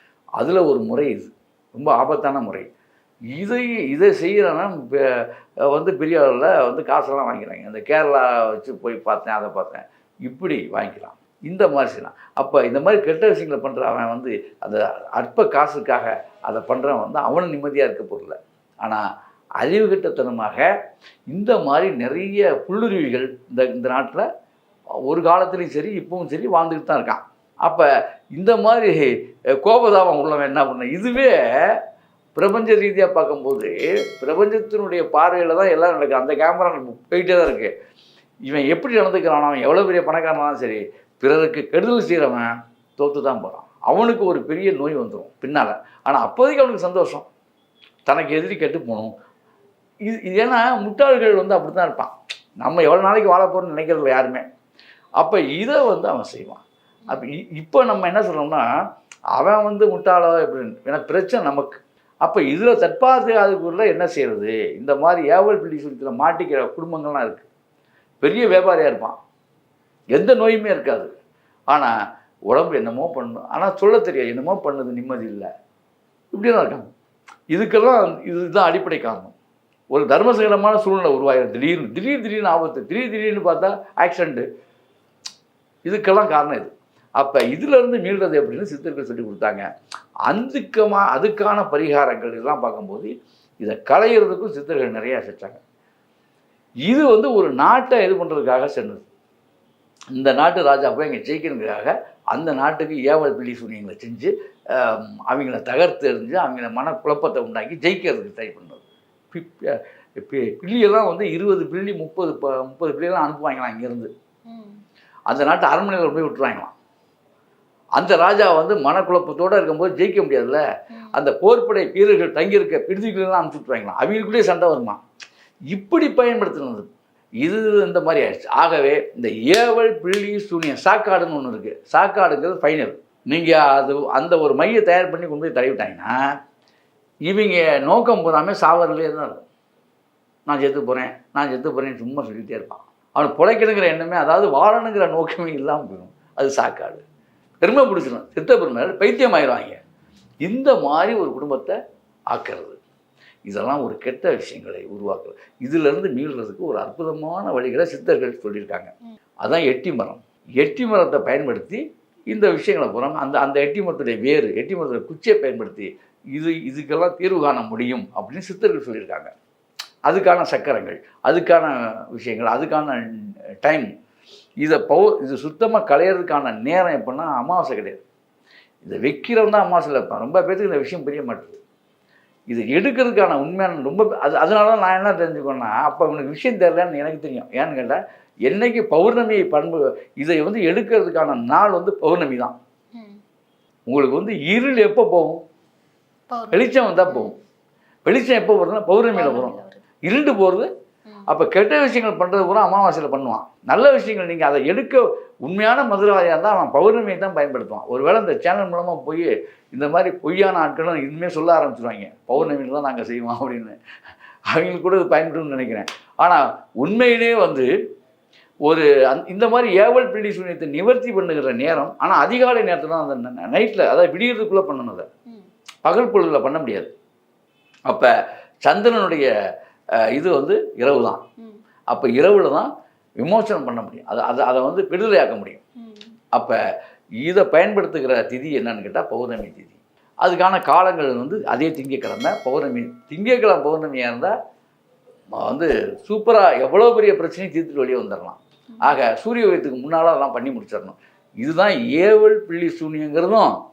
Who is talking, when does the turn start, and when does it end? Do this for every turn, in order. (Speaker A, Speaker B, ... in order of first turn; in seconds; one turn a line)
Speaker A: 0.4-2.7
Speaker A: 3.4-19.0
Speaker A: 19.6-20.7
Speaker A: 21.3-24.3
Speaker A: 25.1-29.1
Speaker A: 29.6-31.8
Speaker A: 32.4-37.7
Speaker A: 38.5-47.3
Speaker A: 48.1-49.1
Speaker A: 50.1-54.5
Speaker A: 55.2-58.7
Speaker A: 59.4-67.5
Speaker A: 68.2-69.2
Speaker A: 70.1-71.1
Speaker A: 72.5-75.5
Speaker A: 76.3-76.9
Speaker A: 77.5-79.3
Speaker A: 79.9-84.5
Speaker A: 85.9-89.7
Speaker A: 90.3-95.6
Speaker A: 96.9-99.1
Speaker A: 100.2-114.1
Speaker B: 114.5-114.8
Speaker A: 115.3-116.7
Speaker A: 118.0-120.6
Speaker B: 120.9-121.2
Speaker A: 121.1-125.0
Speaker A: 125.7-126.9
Speaker A: 127.4-136.1
Speaker A: 137.3-139.5
Speaker A: 140.5-147.0
Speaker A: 147.6-149.8
Speaker A: 150.4-151.8
Speaker A: 152.3-152.8
Speaker A: 153.5-158.9
Speaker A: 159.4-169.3
Speaker A: 170.1-173.0
Speaker A: 173.6-173.9
Speaker A: 174.6-178.0
Speaker A: 178.8-181.6
Speaker A: 182.5-192.6
Speaker B: 192.9-193.2
Speaker A: 193.9-195.4
Speaker B: 196.3-197.3
Speaker A: 196.5-197.3
Speaker A: 198.1-200.7
Speaker B: 199.1-199.8
Speaker A: 201.3-213.8
Speaker A: 214.5-217.7
Speaker A: 218.7-225.1
Speaker A: 225.8-226.9
Speaker A: 228.7-229.3
Speaker A: 230.0-231.2
Speaker A: 231.9-235.6
Speaker B: 235.8-236.1
Speaker A: 237.2-244.3
Speaker A: 245.3-253.5
Speaker B: 248.7-249.0